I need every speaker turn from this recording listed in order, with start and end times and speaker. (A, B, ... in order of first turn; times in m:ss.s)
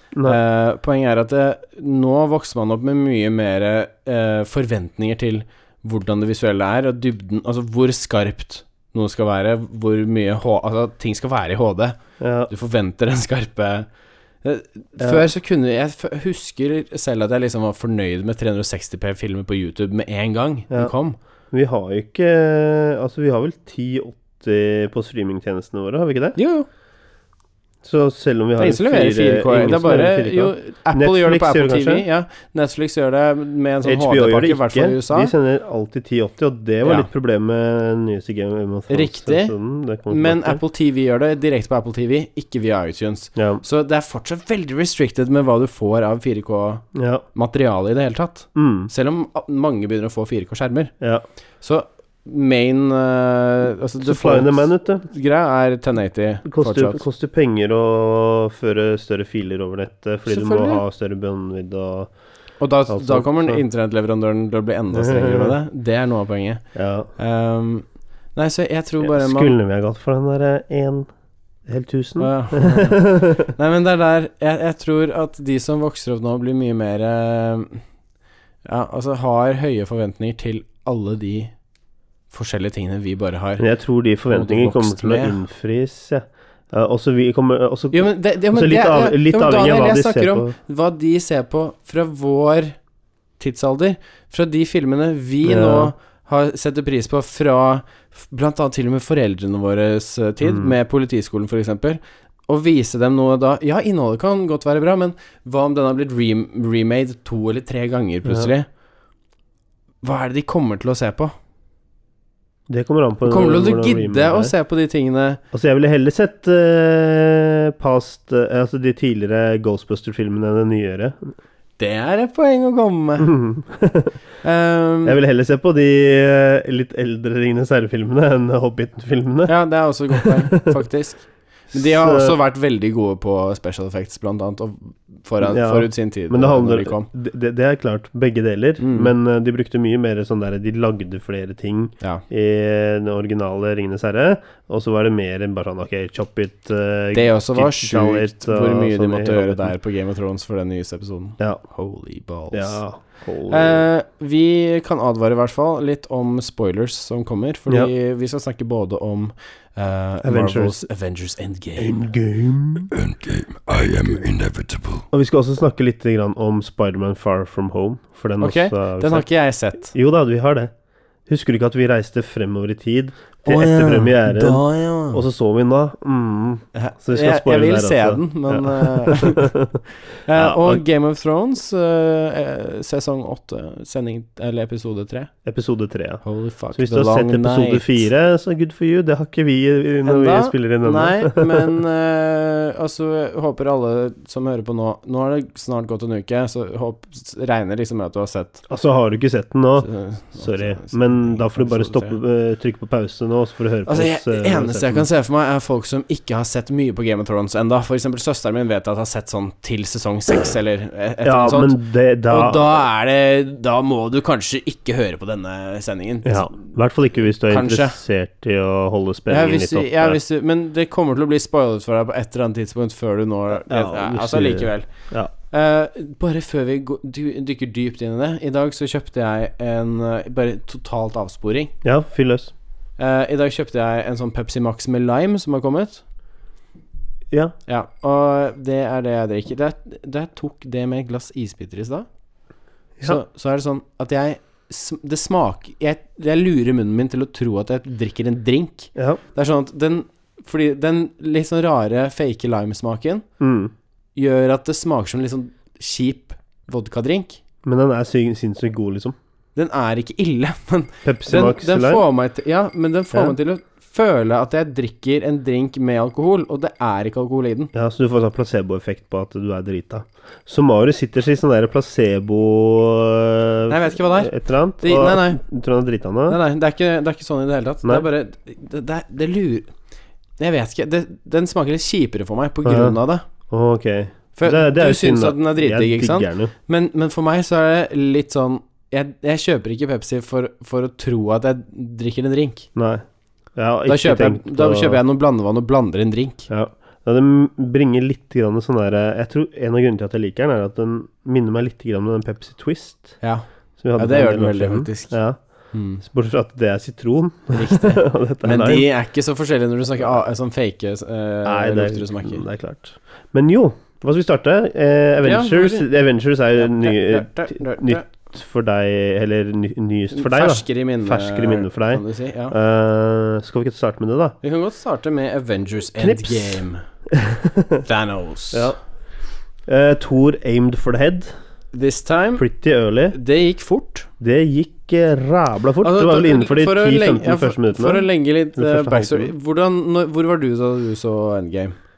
0:00.2-0:13.9 A
0:12.2-0:12.5 B
0:14.4-0:21.2 A
0:15.0-0:15.3 B
0:21.5-0:26.4 B
0:26.4-0:26.7 A
0:27.8-0:32.0 B
0:28.6-0:35.3 A
0:33.8-0:40.6 B
0:36.8-0:37.1 A
0:38.9-0:39.5 A
0:40.1-0:50.9 A
0:43.4-0:43.6 B
0:46.9-0:47.2 B
0:48.5-0:48.9 B
0:51.6-0:57.0 A
0:54.0-0:55.1 B
0:56.4-1:02.1 B
1:00.3-1:00.8 A
1:02.6-1:06.6 A
1:02.9-1:03.6 B
1:04.9-1:05.6 B
1:06.7-1:07.1 B
1:07.2-1:09.5 A
1:09.0-1:11.1 B
1:11.7-1:13.5 B
1:12.2-1:17.8 A
1:18.6-1:21.5 A
1:22.3-1:23.6 A
1:23.6-1:30.6 B
1:24.3-1:25.4 A
1:27.9-1:32.8 A
1:33.4-1:48.7 A
1:35.4-1:35.9 B
1:40.4-1:40.7 B
1:48.2-1:48.5 B
1:50.0-1:51.3 A
1:52.7-1:54.5 B
1:53.2-1:55.4 A
1:55.5-2:01.3 B
2:01.8-2:03.3 A
2:03.2-2:04.1 B
2:04.4-2:05.2 A
2:05.0-2:09.5 B
2:09.5-2:17.1 A
2:10.1-2:10.7 B
2:11.7-2:12.4 B
2:15.4-2:29.7 B
2:18.8-2:19.1 A
2:27.1-2:32.8 A
2:32.5-2:33.8 B
2:33.5-2:42.0 A
2:40.2-2:40.8 B
2:41.8-2:42.9 B
2:42.9-2:45.0 C
2:45.1-2:49.2 B
2:48.4-2:49.9 A
2:49.8-2:50.7 B
2:51.3-2:59.8 B
2:53.4-2:55.2 A
2:56.7-2:59.5 A
3:00.2-3:05.3 A
3:00.3-3:00.8 B
3:05.4-3:06.2 B
3:06.2-3:08.0 A
3:06.7-3:11.8 B
3:10.0-3:18.6 A
3:18.7-3:25.1 B
3:19.8-3:22.2 A
3:23.8-3:36.6 A
3:31.2-3:32.8 B
3:36.2-3:40.2 B
3:37.5-3:38.0 A
3:39.3-3:44.9 A
3:43.7-3:45.3 B
3:45.4-3:51.7 A
3:51.8-3:52.5 B
3:53.0-3:56.0 A
3:57.7-4:02.1 A
4:03.0-4:13.2 A
4:08.9-4:09.2 B
4:13.4-4:13.7 B
4:14.2-4:17.4 A
4:17.6-4:19.2 B
4:19.6-4:27.7 A
4:21.0-4:22.0 B
4:27.7-4:36.4 B
4:33.7-4:35.4 A
4:36.3-4:39.7 A
4:40.4-4:43.2 A
4:42.6-4:43.0 B
4:43.5-4:46.5 B
4:44.4-4:52.7 A
4:52.7-4:53.0 B
4:53.6-4:55.0 B
4:53.9-4:56.5 A
4:56.5-5:03.2 B
5:03.8-5:05.4 B
5:04.0-5:05.2 A
5:05.7-5:06.0 A
5:06.0-5:08.9 B
5:07.5-5:12.4 A
5:11.4-5:24.4 B
5:15.2-5:15.9 A
5:16.5-5:18.1 A
5:20.1-5:22.6 A
5:24.4-5:26.8 A
5:26.0-5:27.8 B
5:27.8-5:28.7 A
5:28.5-5:28.8 B
5:29.7-5:31.3 B
5:31.7-5:32.4 A
5:32.4-5:33.2 B
5:33.1-5:34.1 A
5:34.2-5:39.3 B
5:35.8-5:41.7 A